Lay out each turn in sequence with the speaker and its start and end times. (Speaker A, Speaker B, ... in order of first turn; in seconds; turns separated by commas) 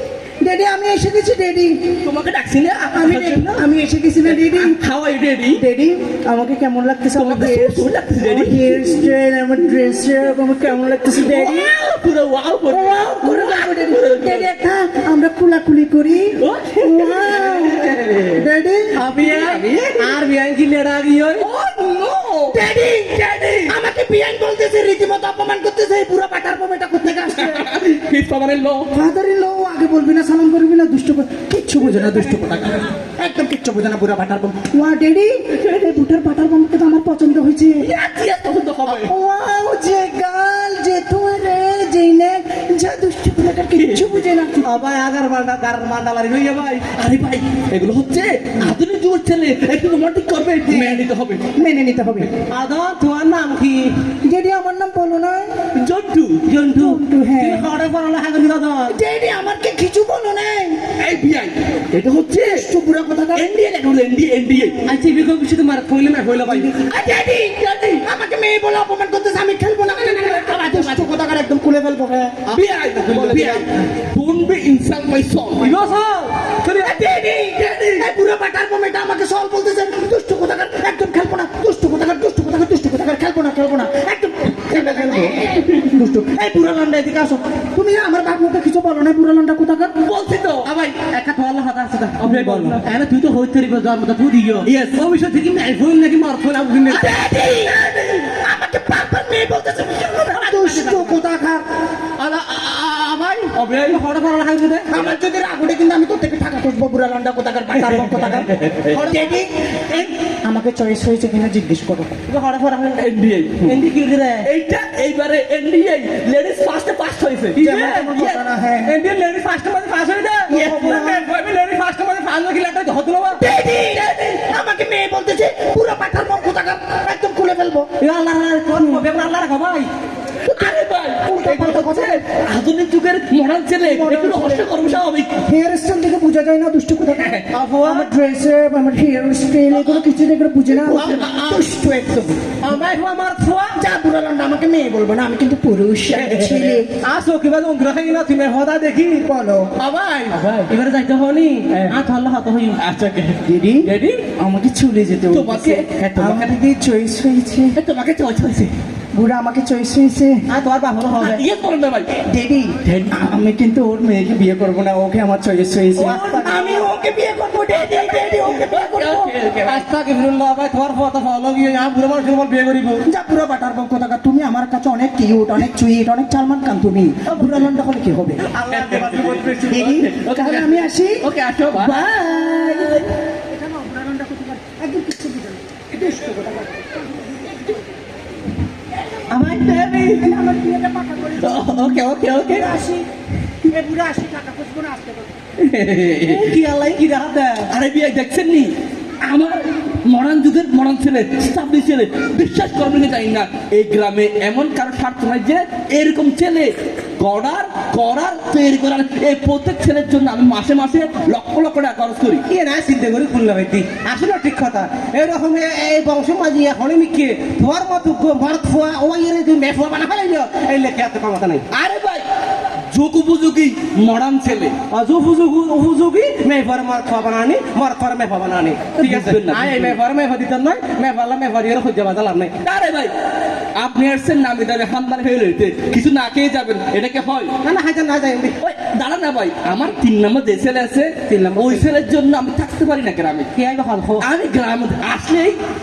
Speaker A: 0.4-1.8, Speaker B: 2.0-3.5, Speaker A: 3.0-4.8, Speaker B: 4.2-5.6, Speaker A: 5.5-11.7, Speaker B: 7.1-8.9, Speaker B: 10.6-14.5, Speaker A: 12.7-18.9, Speaker B: 16.4-18.4, Speaker C: 18.9-21.4, Speaker B: 19.2-20.1, Speaker B: 21.4-23.8, Speaker A: 22.5-27.6, Speaker B: 27.3-28.9, Speaker A: 28.9-37.9, Speaker B: 37.8-39.1, Speaker A: 38.9-44.6, Speaker B: 43.7-44.2, Speaker C: 44.6-46.8, Speaker B: 46.9-51.5, Speaker A: 50.7-51.0, Speaker A: 51.5-52.3, Speaker C: 52.5-53.9, Speaker A: 54.2-55.5, Speaker B: 55.7-56.4, Speaker C: 56.5-59.0, Speaker A: 56.7-57.6, Speaker A: 58.9-60.8, Speaker B: 61.0-62.7, Speaker A: 62.5-63.5, Speaker B: 63.3-64.8, Speaker C: 64.8-66.7, Speaker A: 66.7-72.4, Speaker B: 67.3-68.0, Speaker B: 72.5-75.8, Speaker C: 73.1-73.6, Speaker C: 75.6-77.2, Speaker A: 76.8-89.9, Speaker B: 77.5-78.0, Speaker B: 84.7-85.9, Speaker B: 90.0-90.7, Speaker C: 90.6-97.3, Speaker B: 92.2-92.8, Speaker B: 94.6-95.0, Speaker B: 96.9-98.4, Speaker A: 97.1-97.8, Speaker A: 98.4-101.7, Speaker C: 100.3-101.2, Speaker A: 102.2-103.5, Speaker B: 103.5-104.0, Speaker C: 103.8-105.0, Speaker A: 104.9-112.2, Speaker B: 107.8-109.0, Speaker C: 108.9-110.1, Speaker C: 112.3-113.1, Speaker B: 113.0-113.8, Speaker C: 113.6-114.5, Speaker B: 114.4-118.5, Speaker C: 117.5-118.1, Speaker A: 117.6-118.9, Speaker C: 118.8-123.4, Speaker B: 120.5-121.2, Speaker A: 120.7-121.0, Speaker A: 123.4-127.9, Speaker B: 123.8-124.4, Speaker C: 128.0-129.9, Speaker B: 130.4-135.3, Speaker A: 131.3-132.2, Speaker A: 133.8-134.6, Speaker A: 135.4-142.5, Speaker C: 137.5-138.1, Speaker B: 140.7-141.7, Speaker C: 142.6-143.8, Speaker A: 143.8-146.9, Speaker C: 146.2-149.3, Speaker A: 149.2-149.7, Speaker C: 149.8-152.8, Speaker B: 150.4-150.7, Speaker B: 152.8-154.2, Speaker A: 153.4-157.8, Speaker B: 155.3-156.5, Speaker B: 157.7-158.7, Speaker A: 159.1-160.4, Speaker C: 160.5-161.4, Speaker B: 161.2-162.1, Speaker A: 162.2-169.3, Speaker B: 162.8-163.3, Speaker C: 166.0-166.9, Speaker B: 166.0-166.6, Speaker B: 167.7-169.8, Speaker C: 169.7-173.0, Speaker A: 173.1-178.4, Speaker C: 178.5-179.9, Speaker B: 178.7-183.1, Speaker A: 179.7-187.8, Speaker C: 189.3-189.7, Speaker A: 189.3-193.0, Speaker B: 189.7-190.3, Speaker B: 191.4-192.8, Speaker A: 193.7-195.3, Speaker B: 195.6-196.5, Speaker C: 196.2-197.7, Speaker B: 197.7-212.4, Speaker C: 212.5-221.6, Speaker B: 221.7-222.2, Speaker B: 222.9-224.7, Speaker C: 224.9-232.5, Speaker B: 229.0-230.0, Speaker B: 232.6-233.1, Speaker B: 233.8-237.5, Speaker C: 237.6-238.6, Speaker B: 238.6-243.5, Speaker C: 241.3-241.9, Speaker C: 243.5-244.3, Speaker B: 244.2-245.6